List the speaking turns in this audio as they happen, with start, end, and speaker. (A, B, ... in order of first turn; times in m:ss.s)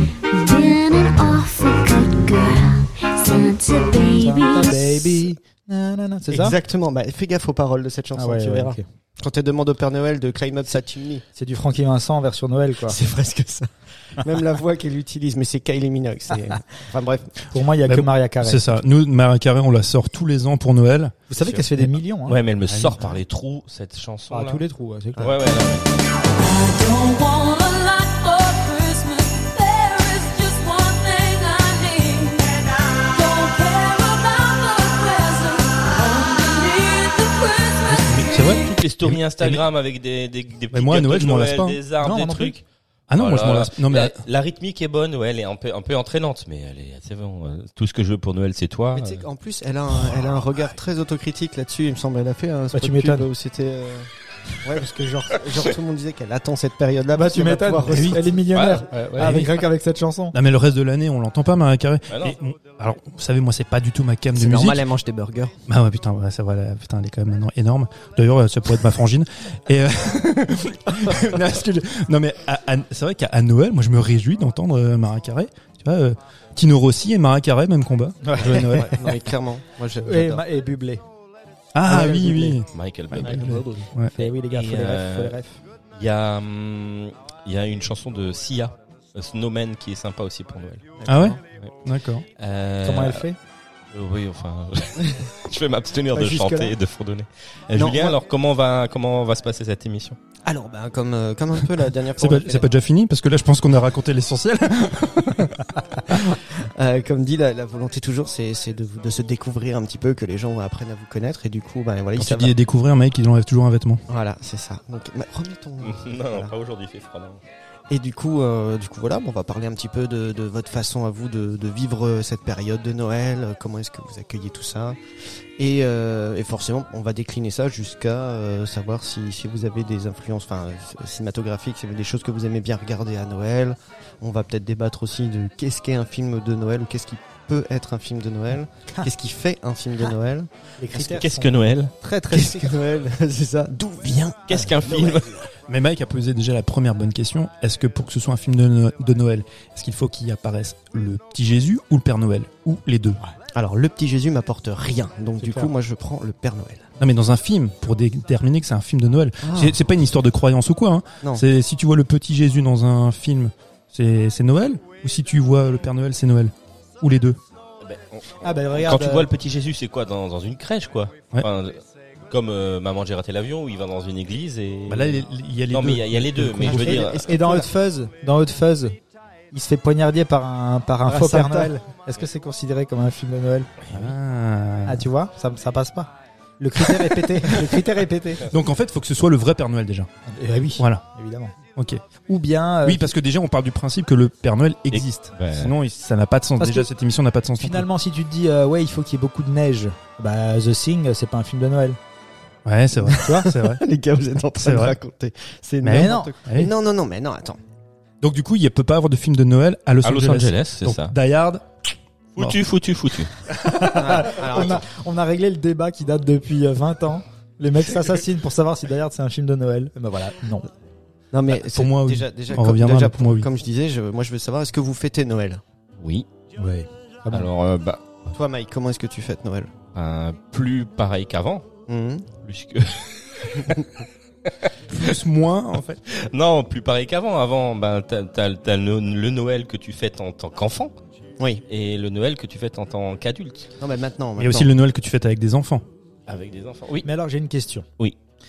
0:00.3-0:05.2 A
0:04.1-0:06.6 B
0:06.3-0:11.2 C
0:08.1-0:08.8 B
0:11.3-0:13.0 B
0:12.9-0:17.4 C
0:17.5-0:18.8 B
0:17.9-0:21.2 D
0:21.3-0:22.4 B
0:21.3-0:24.6 E
0:22.7-0:23.1 D
0:24.3-0:25.5 B
0:25.2-0:26.1 E
0:26.3-0:38.7 F
0:37.9-0:39.7 D
0:38.5-0:42.6 E
0:40.7-0:41.8 D
0:42.0-0:42.5 B
0:43.1-0:44.2 D
0:43.1-0:49.3 E
0:48.9-0:54.1 C
0:50.1-0:50.6 E
0:52.7-0:53.3 B
0:54.6-0:58.4 C
0:57.1-1:00.3 B
0:57.9-0:58.2 D
0:58.5-0:59.5 E
1:00.3-1:04.9 D
1:02.1-1:02.4 E
1:04.3-1:05.6 C
1:05.7-1:18.8 D
1:18.2-1:19.2 B
1:18.7-1:20.4 C
1:20.0-1:21.0 B
1:21.7-1:24.1 D
1:21.8-1:22.6 B
1:22.7-1:23.6 E
1:23.2-1:25.6 B
1:24.2-1:25.4 E
1:26.0-1:30.8 E
1:31.0-1:31.4 C
1:31.1-1:32.2 D
1:32.4-1:33.2 E
1:32.8-1:33.4 B
1:33.9-1:40.2 E
1:36.1-1:36.7 B
1:37.7-1:38.2 C
1:40.4-1:42.7 C
1:42.1-1:45.7 D
1:46.1-1:52.5 C
1:52.1-1:54.0 D
1:54.1-1:56.5 C
1:55.8-1:57.4 E
1:57.9-2:05.0 C
2:05.6-2:21.2 C
2:20.8-2:22.7 B
2:21.0-2:21.9 E
2:22.3-2:25.3 C
2:24.5-2:25.5 E
2:25.7-2:33.2 D
2:33.5-2:36.9 C
2:35.4-2:35.7 B
2:37.0-2:47.4 D
2:39.4-2:39.8 C
2:47.8-2:57.4 E
2:48.4-2:49.3 B
2:54.9-2:57.0 D
2:56.6-2:57.7 C
2:56.7-2:59.0 B
2:59.5-3:03.7 B
3:01.0-3:01.7 C
3:03.9-3:05.1 D
3:04.8-3:08.4 B
3:07.5-3:07.8 D
3:08.5-3:10.1 D
3:10.2-3:11.5 B
3:10.8-3:11.0 D
3:11.8-3:12.0 D
3:12.3-3:13.1 B
3:12.8-3:17.9 D
3:14.9-3:15.7 E
3:16.6-3:16.9 B
3:17.6-3:22.0 B
3:22.6-3:23.8 D
3:23.0-3:27.6 C
3:23.2-3:23.4 B
3:24.6-3:25.0 D
3:25.8-3:26.7 D
3:25.9-3:26.3 B
3:28.2-3:31.6 D
3:30.0-3:31.1 E
3:32.3-3:33.3 E
3:33.6-3:40.7 B
3:33.8-3:34.8 C
3:41.3-3:45.6 C
3:41.5-3:43.5 D
3:46.0-3:46.2 E
3:46.6-3:47.5 B
3:47.3-3:48.2 E
3:48.3-3:49.7 C
3:49.9-3:51.7 E
3:51.9-3:52.3 C
3:52.4-3:53.8 E
3:53.6-3:53.8 C
3:54.4-3:54.7 E
3:54.9-3:56.0 D
3:56.1-4:00.9 E
4:01.7-4:03.7 E
4:03.8-4:04.7 C
4:04.4-4:05.8 D
4:06.3-4:07.1 E
4:07.0-4:07.9 B